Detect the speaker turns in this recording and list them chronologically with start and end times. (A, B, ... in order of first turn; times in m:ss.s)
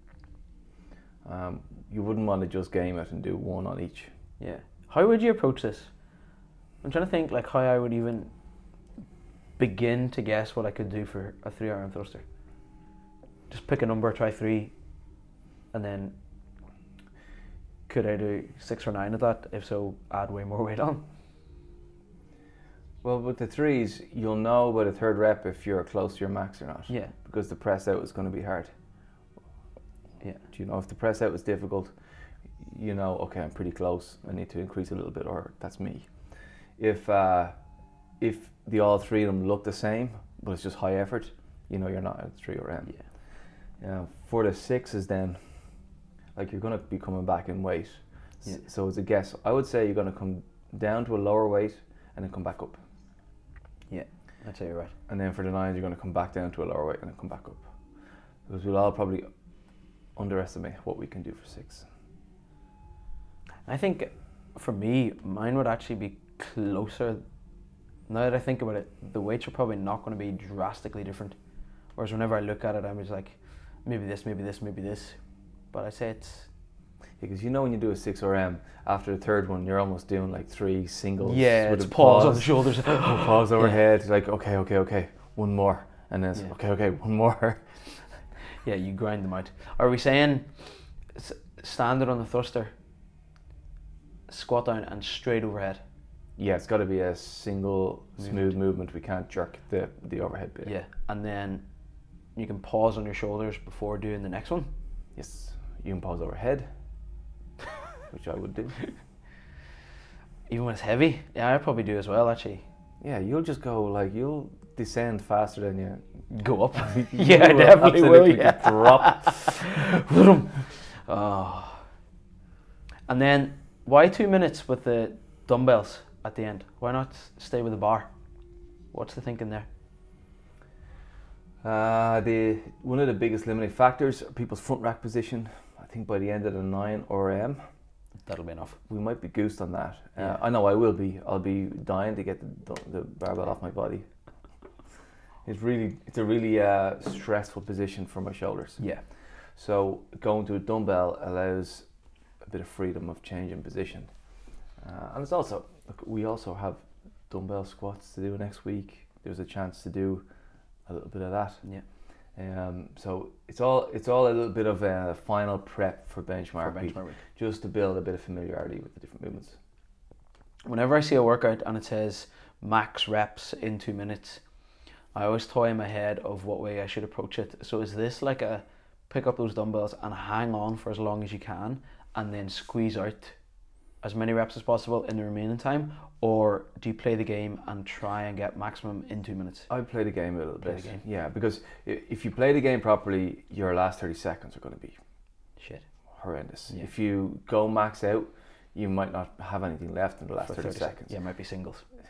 0:01.2-0:04.1 A
0:04.4-0:05.9 B
0:06.8-0:08.3 B
0:09.6-0:12.2 B
0:13.5-0:14.7 B
0:15.7-0:16.2 B
0:17.9-0:21.1 B
0:23.0-0:28.7 A
0:30.5-0:31.9 A
0:32.6-0:36.1 A
0:36.8-0:37.6 A
0:38.2-0:43.0 A
0:43.8-0:45.4 A
0:46.4-0:52.8 A
0:53.9-0:55.0 B
0:55.1-0:57.7 A
0:58.5-0:59.3 A
1:00.2-1:01.9 A
1:03.7-1:07.2 B
1:08.1-1:11.4 B
1:12.0-1:15.2 B
1:15.7-1:16.5 B
1:17.2-1:27.9 A
1:21.2-1:23.8 B
1:28.6-1:32.7 B
1:34.3-1:35.8 B
1:36.4-1:40.7 A
1:38.2-1:38.6 B
1:40.6-1:41.6 B
1:42.4-1:44.7 B
1:45.2-1:46.7 A
1:48.1-1:48.8 A
1:50.5-1:52.6 B
1:53.0-1:56.0 A
1:56.3-2:01.9 B
1:56.8-1:59.5 A
2:03.1-2:08.1 B
2:08.9-2:09.7 B
2:11.6-2:17.6 A
2:18.2-2:18.8 B
2:18.9-2:24.0 A
2:25.4-2:28.8 A
2:28.8-2:29.0 B
2:29.6-2:31.9 A
2:32.5-2:34.1 A
2:34.8-2:40.2 A
2:40.9-2:41.6 A
2:42.4-2:49.6 A
2:46.6-2:47.2 B
2:50.7-2:54.4 B
2:55.1-3:03.4 B
3:04.0-3:09.7 B
3:09.7-3:15.0 A
3:10.6-3:11.0 B
3:15.6-3:15.8 B
3:16.2-3:21.1 A
3:20.4-3:21.8 B